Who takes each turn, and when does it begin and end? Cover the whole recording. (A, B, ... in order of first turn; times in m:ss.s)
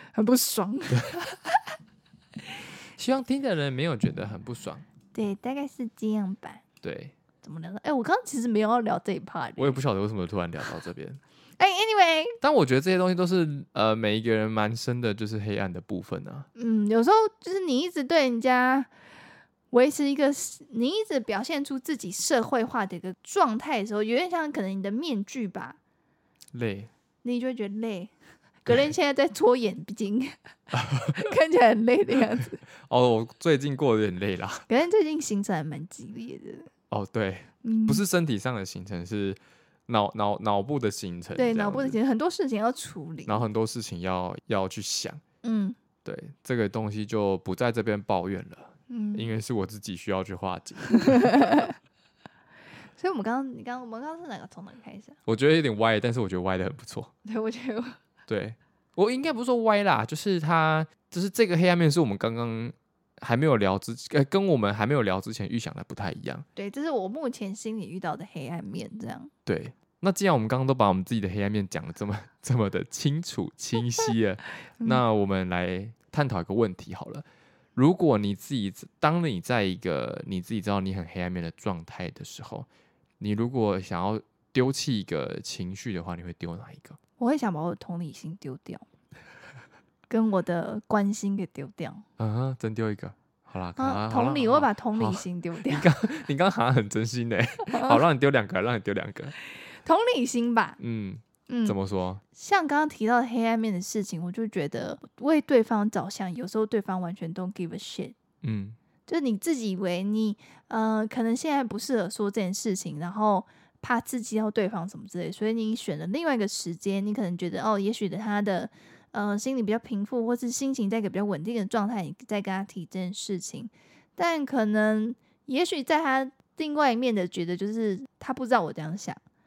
0:00.1-0:01.5 A
0:00.9-0:01.2 B
0:03.0-0:04.8 B
0:05.1-0:06.6 A
0:06.8-0:07.2 B
0:07.4-0:09.8 A
0:09.6-0:11.2 B
0:11.6-0:12.4 A
0:12.4-0:16.5 B
0:16.6-0:18.9 A
0:19.7-0:25.8 A
0:26.5-0:26.9 B
0:27.2-0:30.4 A
0:30.7-0:31.2 B
0:31.1-0:32.6 A
0:32.8-0:34.7 B
0:34.7-0:36.7 A
0:36.9-0:42.0 B
0:37.6-0:38.0 A
0:41.4-0:43.4 A
0:43.3-0:45.2 B
0:45.4-0:45.8 A
0:46.0-0:51.5 B
0:48.9-0:49.3 A
0:51.1-0:51.7 A
0:53.0-0:55.2 A
0:55.3-0:57.1 B
0:57.2-0:58.0 A
0:58.3-1:06.4 B
1:06.6-1:09.3 A
1:09.5-1:17.2 B
1:17.8-1:22.7 B
1:23.2-1:27.0 B
1:27.2-1:28.9 A
1:30.1-1:32.0 A
1:32.2-1:39.4 B
1:33.8-1:35.9 A
1:37.7-1:38.0 A
1:39.6-1:40.8 A
1:40.8-1:42.2 B
1:41.5-1:41.8 A
1:42.4-1:48.2 A
1:48.4-1:48.8 B
1:49.1-2:09.2 A